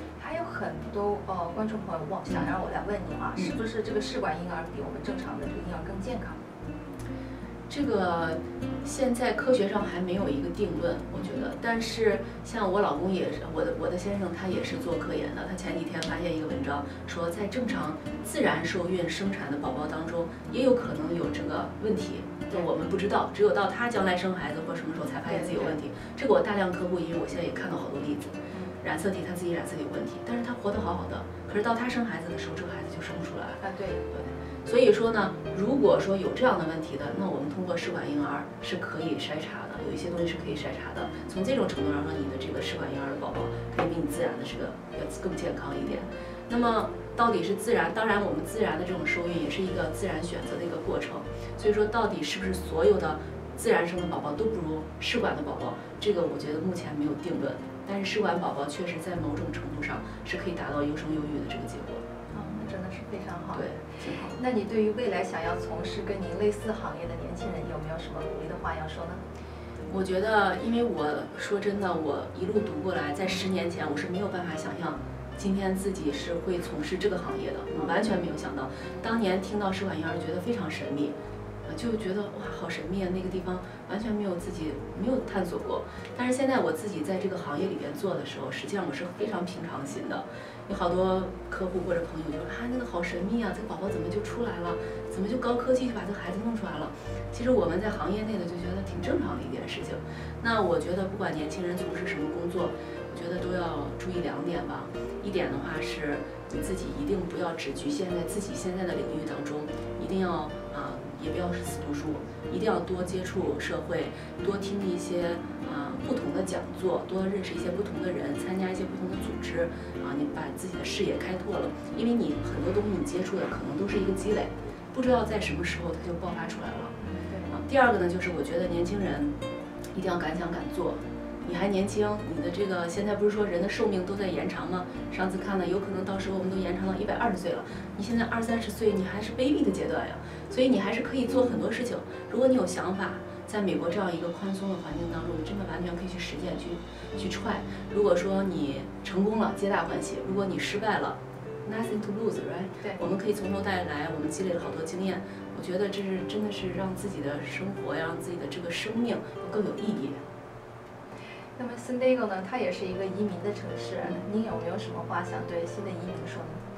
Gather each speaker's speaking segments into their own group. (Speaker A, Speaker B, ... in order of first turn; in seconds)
Speaker A: 0.2-6.4, 25.3-25.8, 28.5-28.8, 33.6-34.0, 45.8-46.1, 62.3-69.2, 77.8-78.2, 127.0-127.6, 152.8-153.1, 161.6-166.6
Speaker B: 7.7-62.0, 63.5-64.4, 69.9-81.2, 81.7-126.9, 127.5-129.3, 129.9-160.2